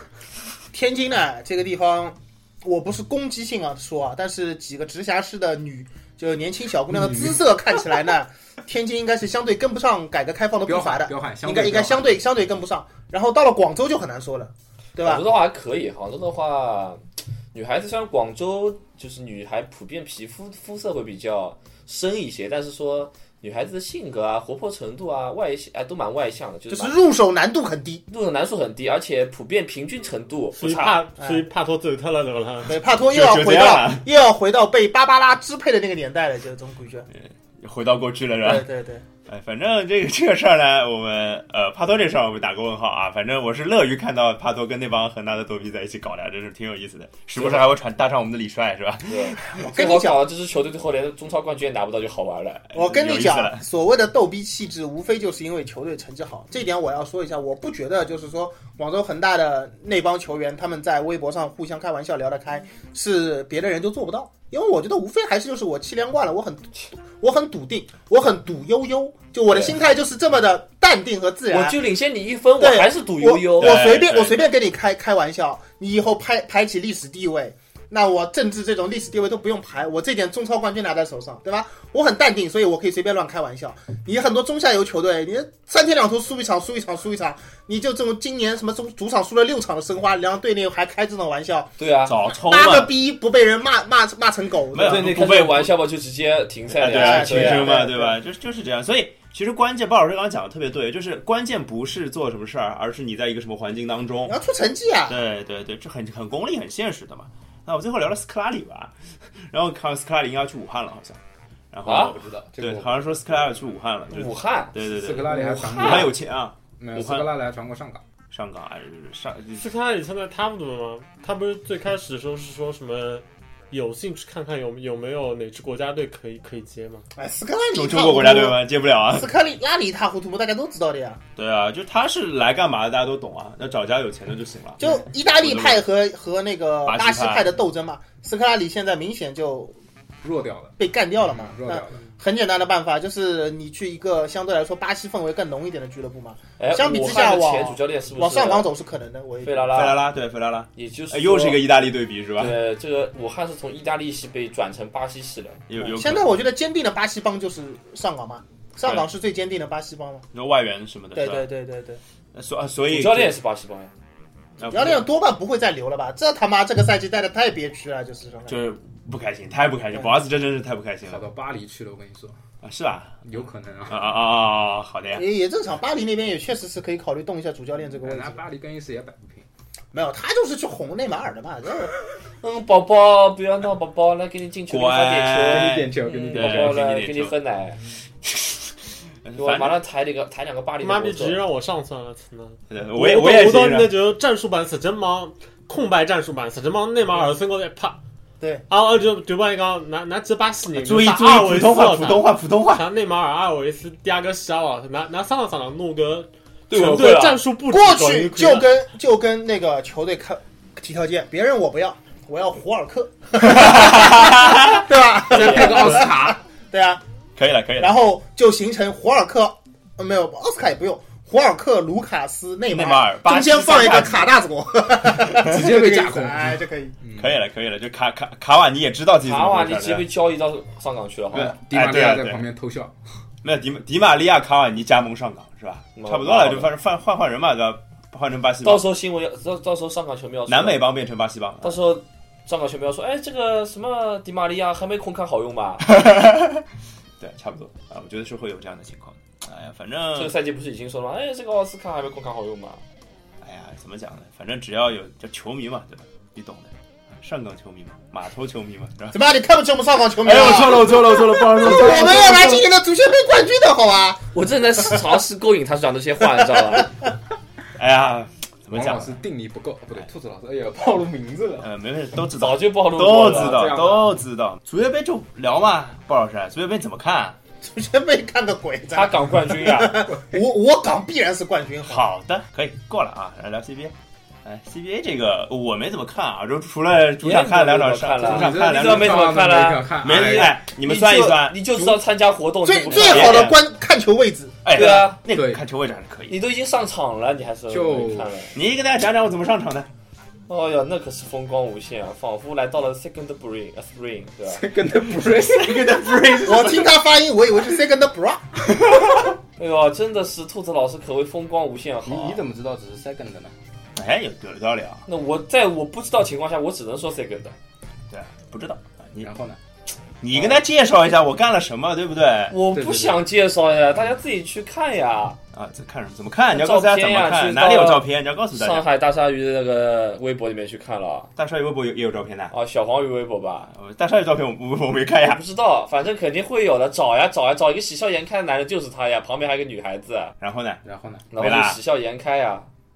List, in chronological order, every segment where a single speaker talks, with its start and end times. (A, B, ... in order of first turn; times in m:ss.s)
0:00.7-0:15.2 A
0:06.9-0:07.4 B
0:10.6-0:12.2 B
0:15.0-0:17.0 C
0:17.5-0:27.0 C
0:26.7-0:28.0 A
0:28.1-0:31.0 C
0:30.6-0:32.8 D
0:31.2-0:31.5 A
0:32.6-0:37.1 A
0:33.1-0:34.0 E
0:37.1-0:38.7 E
0:38.4-0:39.0 A
0:39.2-0:49.6 E
0:49.1-0:52.6 C
0:49.5-0:50.2 A
0:52.7-0:53.6 E
0:52.7-1:11.8 A
1:11.5-1:13.8 C
1:12.6-1:31.7 A
1:13.6-1:14.5 E
1:31.8-1:32.2 C
1:32.0-1:32.9 E
1:32.3-1:35.0 A
1:34.7-1:35.7 E
1:34.8-1:37.7 C
1:36.7-1:44.3 E
1:36.8-1:38.2 A
1:44.2-1:45.2 A
1:45.1-1:48.9 E
1:49.5-1:51.2 E
1:51.7-1:57.3 E
1:51.8-1:52.2 C
1:52.1-1:53.2 B
1:54.1-1:56.1 C
1:54.8-1:56.2 B
1:56.8-1:58.0 B
1:58.3-1:59.7 E
1:59.6-2:07.0 D
2:07.2-2:11.2 A
2:07.7-2:09.3 E
2:11.4-2:15.8 E
2:14.8-2:19.8 A
2:16.8-2:17.5 E
2:20.2-2:20.8 B
2:20.8-2:29.8 A
2:21.4-2:22.0 B
2:26.6-2:28.7 C
2:29.4-2:30.0 C
2:29.7-2:32.6 E
2:30.7-2:31.6 C
2:32.4-2:35.6 C
2:35.7-2:36.3 E
2:35.8-2:40.2 A
2:40.3-2:41.5 E
2:41.1-2:42.0 A
2:42.3-2:43.3 E
2:42.9-2:43.9 C
2:44.6-2:45.0 E
2:44.7-2:48.6 A
2:48.5-2:51.2 E
2:51.0-2:52.4 B
2:52.6-2:53.2 E
2:53.2-2:54.1 B
2:53.9-2:55.2 E
2:55.1-2:58.4 A
2:58.0-2:59.4 B
2:59.9-3:01.9 A
3:02.4-3:07.8 C
3:04.7-3:07.3 E
3:05.4-3:06.8 B
3:08.2-3:08.7 E
3:09.2-3:09.8 E
3:09.4-3:11.4 C
3:10.8-3:18.0 D
3:12.7-3:13.9 E
3:18.7-3:28.7 D
3:20.7-3:22.8 E
3:26.7-3:27.4 C
3:27.7-3:37.0 A
3:33.4-3:34.8 E
3:35.3-3:36.1 D
3:35.3-3:36.0 C
3:35.5-3:36.3 B
3:37.4-3:37.9 E
3:37.8-3:47.0 A
3:42.7-3:44.3 E
3:45.4-3:47.3 B
3:47.2-3:50.0 E
3:49.2-3:51.5 C
3:51.3-3:52.4 E
3:51.3-3:53.0 B
3:53.4-3:58.9 E
3:56.0-3:56.7 C
3:58.6-4:00.8 C
4:00.5-4:01.8 E
4:01.6-4:05.8 C
4:05.8-4:06.6 E
4:07.2-4:10.3 E
4:10.1-4:12.8 C
4:13.4-4:19.2 E
4:19.1-4:24.2 A
4:20.2-4:22.6 E
4:20.7-4:22.0 B
4:24.3-4:26.9 C
4:27.8-4:29.2 E
4:28.7-4:31.7 B
4:31.6-4:37.4 E
4:32.4-4:33.8 C
4:33.2-4:34.1 B
4:37.6-4:42.0 A
4:38.9-4:40.1 C
4:41.8-4:43.9 E
4:44.4-4:49.2 E
4:47.2-4:49.8 C
4:48.2-4:50.6 B
4:50.0-4:51.6 E
4:50.6-4:53.5 C
4:52.6-4:54.6 A
4:52.9-4:53.6 E
4:54.6-4:56.4 E
4:54.7-4:55.2 C
4:54.8-4:55.6 B
4:56.3-4:58.6 C
4:57.7-4:58.4 B
4:58.5-4:59.9 E
5:00.5-5:04.6 C
5:04.4-5:06.6 B
5:05.5-5:06.8 E
5:06.4-5:08.4 A
5:09.6-5:12.4 C
5:12.0-5:13.5 B
5:14.0-5:15.0 E
5:15.0-5:17.5 C
5:18.1-5:19.3 E
5:19.2-5:19.6 B
5:20.2-5:22.6 E
5:20.3-5:20.6 C
5:22.5-5:25.4 C
5:22.7-5:23.2 B
5:25.5-5:28.8 E
5:26.5-5:31.3 C
5:31.4-5:32.5 E
5:32.5-5:33.7 C
5:33.7-5:35.4 E
5:35.2-5:40.3 C
5:40.4-5:41.8 E
5:40.8-5:41.2 B
5:41.3-5:42.7 C